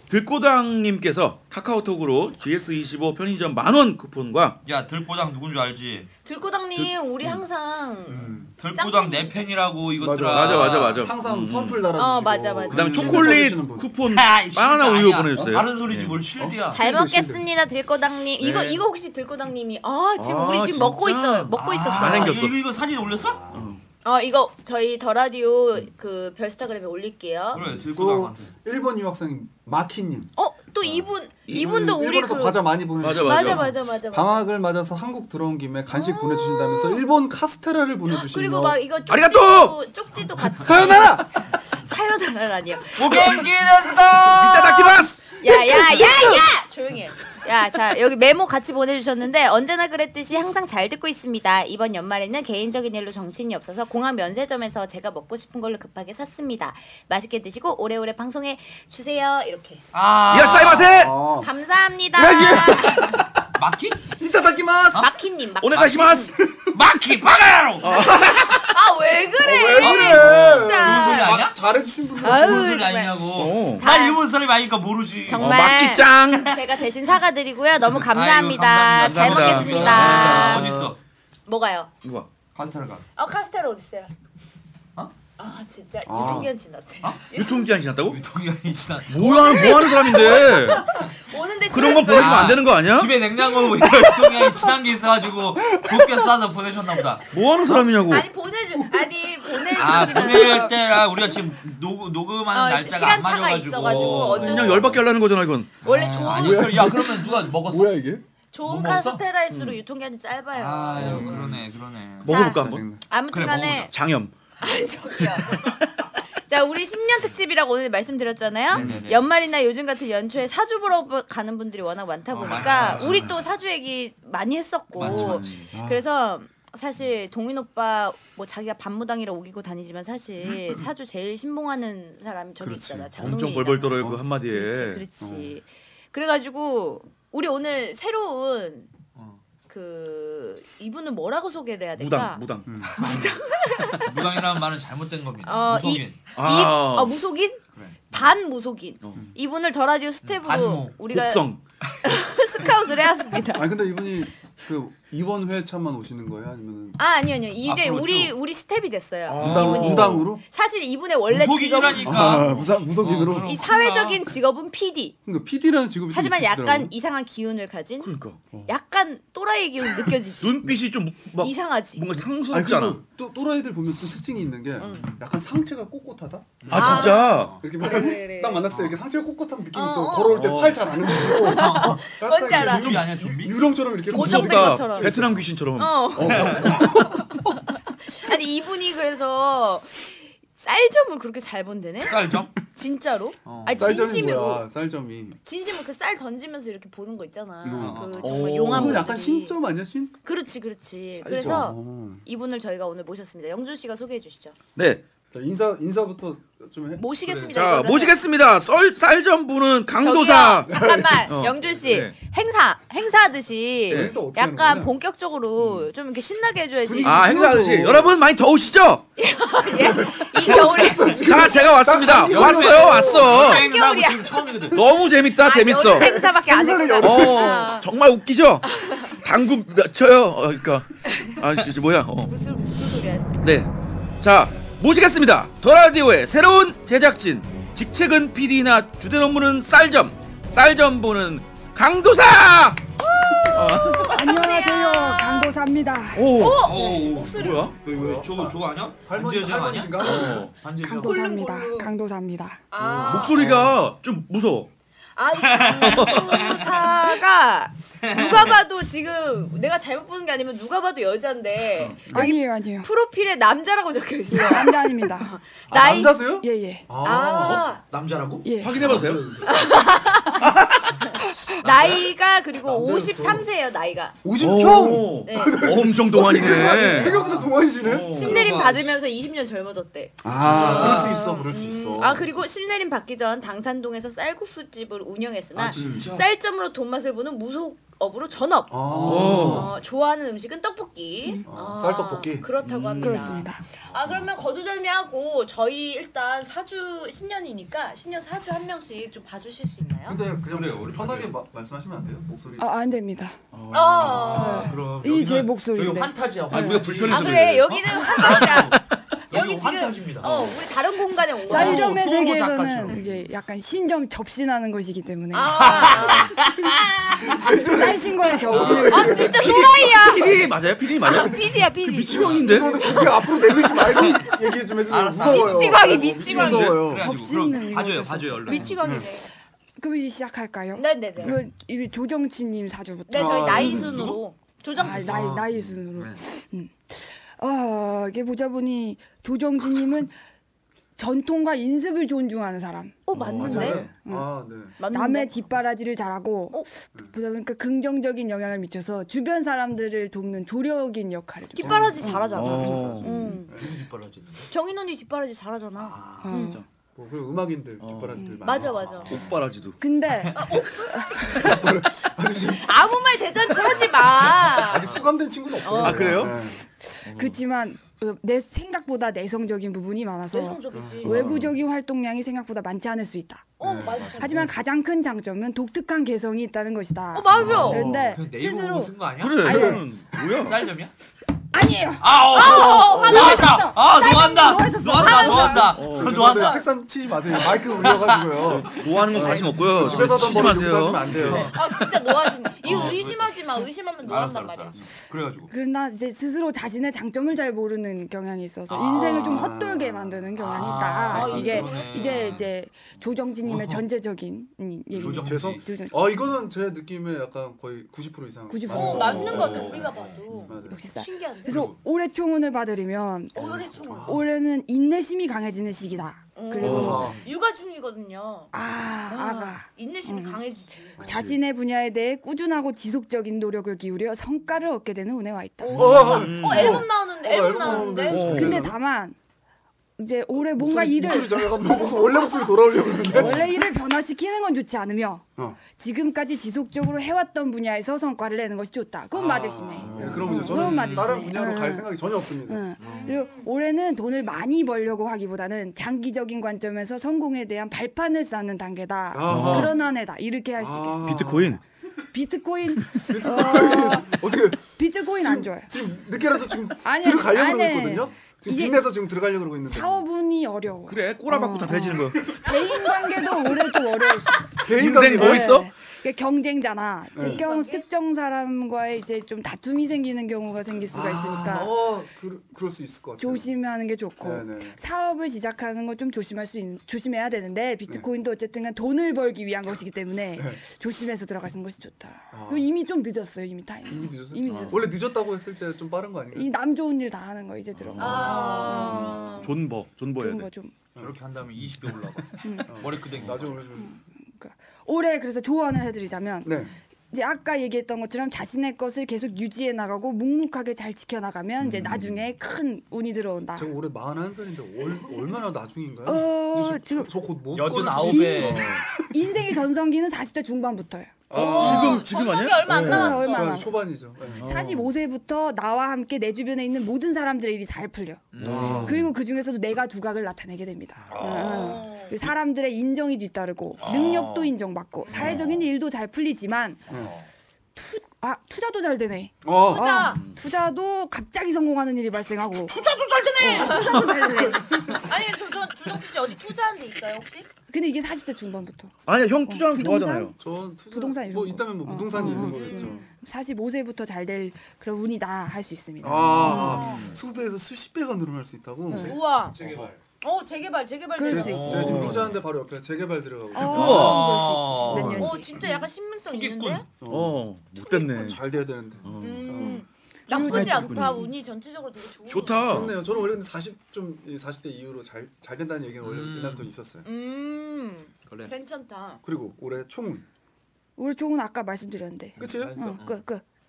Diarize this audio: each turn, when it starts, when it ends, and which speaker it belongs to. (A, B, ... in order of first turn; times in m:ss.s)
0:00.1-0:04.6 A
0:04.6-0:06.1 B
0:06.2-0:09.5 C
0:08.1-0:08.5 D
0:08.6-0:11.1 B
0:10.0-0:13.9 D
0:10.3-0:11.9 A
0:12.0-0:13.5 C
0:12.7-0:16.3 A
0:14.1-0:16.8 B
0:16.4-0:17.5 D
0:16.7-0:22.4 C
0:18.4-0:18.7 A
0:20.2-0:22.6 A
0:21.5-0:23.5 B
0:23.5-0:23.8 A
0:24.0-0:27.6 C
0:27.5-0:28.5 B
0:27.8-0:30.3 D
0:30.4-0:34.4 C
0:31.5-0:31.7 A
0:31.5-0:38.8 D
0:33.0-0:33.7 A
0:35.9-0:37.0 C
0:38.1-0:59.8 C
0:39.1-0:39.8 A
0:40.6-0:41.4 D
0:43.0-0:46.2 A
0:43.0-0:44.4 B
0:45.5-0:46.5 D
0:59.9-1:01.0 B
1:00.3-1:01.2 A
1:00.7-1:01.5 D
1:01.3-1:03.2 C
1:02.1-1:03.4 D
1:03.6-1:04.2 B
1:04.2-1:05.1 D
1:05.0-1:06.4 C
1:05.6-1:06.4 A
1:05.7-1:06.0 B
1:06.6-1:08.3 B
1:07.8-1:08.7 A
1:07.9-1:11.4 C
1:09.4-1:12.9 D
1:09.8-1:11.6 B
1:12.2-1:14.2 C
1:12.2-1:15.6 B
1:13.3-1:13.8 A
1:15.3-1:20.8 C
1:15.3-1:16.6 A
1:18.0-1:21.0 B
1:19.0-1:20.8 A
1:20.1-1:20.9 D
1:21.5-1:21.9 C
1:22.0-1:22.3 A
1:22.6-1:23.1 B
1:23.2-1:24.1 C
1:25.4-1:27.9 C
1:26.1-1:26.5 D
1:27.3-1:28.2 A
1:28.1-1:29.7 B
1:29.1-1:30.9 A
1:29.2-1:32.6 C
1:31.7-1:34.4 A
1:32.1-1:37.3 B
1:35.7-1:36.3 D
1:37.3-1:38.3 A
1:38.1-1:40.8 C
1:38.8-1:40.1 D
1:39.8-1:45.0 B
1:42.5-1:45.0 C
1:43.8-1:44.2 D
1:44.0-1:45.7 A
1:45.8-1:46.9 C
1:45.8-1:48.0 B
1:46.0-1:48.2 D
1:48.5-1:51.4 C
1:48.6-1:49.2 B
1:49.5-1:49.8 A
1:50.5-1:52.3 B
1:51.0-1:51.6 D
1:52.2-1:52.8 A
1:52.2-1:53.0 D
1:52.3-1:53.9 C
1:53.3-1:53.9 B
1:53.9-1:54.3 A
1:54.6-1:55.8 C
1:56.5-2:18.9 C
1:58.7-1:59.2 B
1:58.7-1:59.0 D
2:02.3-2:03.3 B
2:05.0-2:05.6 B
2:05.0-2:06.0 D
2:05.1-2:05.6 A
2:12.6-2:14.3 D
2:13.2-2:15.1 A
2:15.2-2:15.6 D
2:19.7-2:24.2 C
2:22.0-2:23.3 A
2:22.6-2:23.2 D
2:24.0-2:26.2 B
2:25.4-2:31.5 C
2:26.4-2:27.2 A
2:27.8-2:28.2 B
2:30.2-2:31.0 B
2:31.1-2:31.6 A
2:32.0-2:33.8 C
2:33.5-2:37.0 D
2:37.0-2:42.5 C
2:37.6-2:38.4 B
2:39.3-2:40.3 A
2:39.4-2:40.4 D
2:41.3-2:44.2 B
2:42.0-2:43.6 D
2:43.4-2:45.2 C
2:45.2-2:46.9 D
2:46.1-2:48.1 C
2:48.0-2:48.4 A
2:48.7-2:50.7 C
2:50.4-2:53.0 A
2:51.4-2:52.2 C
2:52.5-3:05.5 D
2:54.8-2:55.2 C
2:56.6-2:57.6 B
2:56.7-2:57.6 A
2:56.7-2:58.7 C
2:58.7-2:59.0 B
2:59.7-3:03.0 C
3:00.3-3:01.0 A
3:01.5-3:03.8 B
3:04.1-3:05.2 C
3:04.1-3:06.8 A
3:05.8-3:06.8 C
3:06.2-3:07.6 D
3:06.2-3:06.8 B
3:08.1-3:14.7 C
3:12.0-3:12.7 B
3:13.4-3:14.0 B
3:13.7-3:15.4 D
3:15.4-3:19.6 C
3:17.6-3:20.2 D
3:17.8-3:18.4 B
3:18.2-3:19.1 A
3:20.2-3:24.6 C
3:21.2-3:21.7 A
3:21.3-3:22.2 D
3:24.8-3:25.0 A
3:25.3-3:27.1 D
3:27.0-3:28.2 C
3:27.5-3:32.2 A
3:30.0-3:37.4 C
3:30.6-3:31.3 D
3:33.9-3:35.0 D
3:33.9-3:34.2 A
3:35.6-3:35.9 D
3:36.8-3:38.2 D
3:37.0-3:39.0 A
3:39.2-3:41.8 C
3:39.7-3:43.4 D
3:40.4-3:43.7 A
3:42.3-3:44.9 B
3:42.7-3:44.8 C
3:44.7-3:46.2 A
3:45.3-3:47.9 C
3:45.9-3:47.6 D
3:47.0-3:52.3 A
3:48.7-3:49.2 C
3:51.1-3:51.4 C
3:52.3-3:53.4 C
3:53.4-4:02.9 A
4:03.1-4:05.6 C
4:03.4-4:04.2 A
4:03.9-4:06.5 E
4:06.1-4:07.7 A
4:06.3-4:07.7 C
4:06.6-4:11.3 B
4:07.9-4:10.5 D
4:10.0-4:10.5 A
4:10.8-4:12.6 E
4:10.9-4:11.9 C
4:12.7-4:13.5 C
4:12.8-4:13.8 D
4:13.0-4:14.7 A
4:15.2-4:26.3 C
4:15.4-4:16.8 B
4:15.8-4:16.6 A
4:18.0-4:18.6 B
4:22.1-4:22.9 E
4:24.3-4:25.4 E
4:25.7-4:27.7 D
4:26.4-4:26.9 E
4:27.0-4:27.8 C
4:27.5-4:29.1 B
4:28.4-4:28.8 E
4:28.6-4:29.4 A
4:28.7-4:29.8 D
4:29.4-4:34.2 C
4:30.3-4:31.0 A
4:31.2-4:31.6 E
4:31.6-4:32.1 B
4:32.6-4:33.5 D
4:34.2-4:38.2 D
4:34.4-4:37.2 A
4:35.2-4:35.8 C
4:36.4-4:37.5 B
4:36.8-4:37.1 C
4:37.8-4:38.4 A
4:38.1-4:39.0 B
4:38.1-5:00.2 C
4:40.2-4:42.4 D
4:40.4-4:41.4 B
4:45.6-4:46.2 B
4:45.8-4:46.1 D
4:48.7-4:49.8 D
4:48.9-4:49.6 B
4:49.0-4:49.7 A
4:51.5-4:52.5 D
4:52.6-4:53.4 A
4:53.0-4:53.6 E
5:00.0-5:02.7 D
5:00.5-5:01.3 B
5:02.6-5:03.4 E
5:03.5-5:04.4 A
5:03.7-5:04.8 C
5:04.0-5:08.8 B
5:04.2-5:06.9 E
5:06.5-5:08.9 A
5:07.0-5:08.8 C
5:09.3-5:12.0 C
5:09.3-5:10.5 B
5:11.5-5:15.9 E
5:11.5-5:12.7 B
5:11.5-5:13.2 A
5:15.3-5:17.5 C
5:15.6-5:16.6 B
5:16.6-5:19.7 D
5:17.7-5:19.3 E
5:18.5-5:19.6 B
5:18.9-5:20.5 C
5:19.3-5:22.8 A
5:21.0-5:24.0 C
5:21.0-5:21.3 D
5:22.1-5:22.9 B
5:22.2-5:27.1 D
5:23.9-5:28.7 B
5:25.2-5:26.9 C
5:26.9-5:28.7 E
5:28.5-5:29.3 C
5:28.8-5:29.1 D
5:29.8-5:33.8 E
5:30.8-5:31.4 C
5:33.1-5:35.4 C
5:33.1-5:34.1 D
5:33.6-5:34.2 B
5:34.8-5:36.2 B
5:34.8-5:40.1 E
5:41.0-5:52.3 E
5:43.1-5:43.9 C
5:43.1-5:43.9 A
5:43.4-5:44.8 D
5:44.8-5:45.6 C
5:51.5-5:53.6 C
5:51.6-5:53.7 D
5:52.3-5:53.2 A
5:53.5-5:54.5 B
5:54.5-5:56.0 C
5:55.8-5:56.4 B
5:56.2-5:56.6 E
5:56.3-5:56.7 A
5:57.0-5:59.3 D
5:57.8-5:59.8 A
5:58.2-5:58.4 E
5:58.4-5:59.2 C
5:58.6-5:59.4 B
5:59.8-6:01.4 E
6:00.2-6:00.6 B
6:00.3-6:01.4 C
6:01.3-6:06.6 D
6:02.4-6:05.0 C
6:04.8-6:05.1 B
6:05.6-6:06.3 C
6:05.8-6:06.4 A
6:06.9-6:13.4 E
6:07.1-6:07.4 A
6:10.3-6:11.3 C
6:10.7-6:11.1 D
6:11.0-6:11.6 A
6:13.6-6:14.5 C
6:13.6-6:14.5 D
6:14.2-6:19.8 E
6:17.1-6:17.9 C
6:17.3-6:19.7 B
6:17.3-6:18.1 D
6:19.2-6:20.6 A
6:19.4-6:19.8 D
6:20.2-6:20.9 B
6:21.5-6:25.8 E
6:22.0-6:26.7 B
6:22.3-6:23.7 C
6:25.0-6:26.7 C
6:25.7-6:31.7 D
6:25.7-6:26.3 A
6:27.3-6:35.5 B
6:28.4-6:31.5 A
6:31.5-6:34.8 C
6:35.5-6:46.2 E
6:38.7-6:39.5 B
6:38.8-6:40.3 D
6:40.4-6:42.5 B
6:41.1-6:42.3 C
6:43.4-6:43.8 B
6:45.0-6:45.6 B
6:45.0-6:50.8 D
6:48.5-6:49.6 E
6:48.7-6:51.7 C
6:49.0-6:50.5 B
6:50.7-6:53.4 E
6:53.3-6:54.2 C
6:53.4-6:54.2 D
6:54.0-6:57.2 E
6:56.4-6:58.5 C
6:56.6-6:57.3 D
6:56.6-6:57.1 A
6:56.9-6:57.3 B
6:58.5-7:00.4 E
6:59.1-7:01.0 C
7:01.0-7:01.3 D
7:01.0-7:06.1 E
7:01.0-7:01.4 A
7:05.6-7:08.3 C
7:05.7-7:08.8 D
7:05.9-7:06.9 A
7:07.7-7:09.2 E
7:08.0-7:08.7 A
7:10.0-7:11.9 E
7:10.6-7:13.5 D
7:13.1-7:31.1 E
7:19.1-7:22.7 D
7:19.8-7:20.5 A
7:20.0-7:21.2 B
7:22.8-7:23.1 B
7:22.8-7:23.5 C
7:29.1-7:29.8 D
7:29.2-7:29.7 A
7:30.6-7:31.6 D
7:31.0-7:31.6 A
7:32.1-7:35.7 E
7:32.9-7:34.6 D
7:35.2-7:40.0 D
7:36.8-7:38.9 E
7:39.6-7:51.7 E
7:40.9-7:42.4 A
7:42.4-7:42.8 C
7:44.6-7:45.5 D
7:44.7-7:45.7 A
7:47.2-7:47.4 D
7:47.2-7:47.8 C
7:50.9-7:53.5 D
7:53.2-8:05.0 E
7:54.2-7:54.8 D
8:02.3-8:02.7 D
8:03.9-8:06.5 D
8:04.5-8:04.9 A
8:06.3-8:09.4 E
8:07.8-8:10.5 A
8:08.0-8:09.6 C
8:08.0-8:08.8 D
8:10.2-8:10.7 E
8:11.0-8:13.7 B
8:12.4-8:12.7 E
8:12.7-8:14.0 D
8:13.8-8:16.6 E
8:16.4-8:16.8 D
8:17.1-8:23.7 E
8:21.7-8:22.0 D
8:23.6-8:29.3 D
8:26.1-8:27.1 E
8:27.5-8:28.7 B
8:28.0-8:32.0 E
8:31.3-8:32.1 D
8:31.3-8:33.7 C
8:31.4-8:33.2 A
8:32.7-8:34.8 D
8:32.7-8:33.8 E
8:34.4-8:34.9 A
8:34.4-8:38.3 E
8:38.3-8:39.0 B
8:38.4-8:39.0 A
8:38.4-8:39.0 D
8:38.8-8:46.9 E
8:41.1-8:41.8 B
8:41.3-8:42.2 C
8:43.8-8:44.5 B
8:45.1-8:45.6 A
8:45.2-8:45.5 D
8:46.9-8:47.1 D
8:46.9-8:47.3 B
8:47.8-8:52.8 E
8:49.4-8:50.1 D
8:49.7-8:50.2 C
8:52.7-8:57.5 C
8:53.4-8:55.0 E
8:57.7-8:58.9 E
8:59.1-9:00.4 A
8:59.5-9:00.4 E
9:00.4-9:03.1 D
9:00.9-9:07.0 E
9:02.2-9:03.0 C
9:06.0-9:09.9 D
9:06.4-9:07.1 A
9:06.4-9:07.2 C
9:08.9-9:09.2 E
9:09.0-9:09.6 C
9:09.5-9:10.0 B
9:10.2-9:11.8 C
9:11.2-9:12.2 E
9:11.3-9:14.2 D
9:11.3-9:12.4 B
9:11.7-9:12.4 A
9:13.5-9:15.7 E
9:13.6-9:14.4 A
9:13.7-9:15.5 B
9:14.9-9:15.2 A
9:15.2-9:16.9 C
9:16.3-9:16.8 B
9:17.0-9:19.8 D
9:17.1-9:18.4 A
9:19.0-9:19.7 A
9:19.2-9:22.9 C
9:20.3-9:21.3 E
9:20.4-9:21.3 A
9:22.3-9:23.0 A
9:22.6-9:27.1 D
9:26.0-9:26.7 B
9:27.0-9:29.2 C
9:28.3-9:28.5 B
9:29.2-9:30.2 D
9:31.0-9:33.4 E
9:32.4-9:33.2 B
9:32.4-9:32.9 D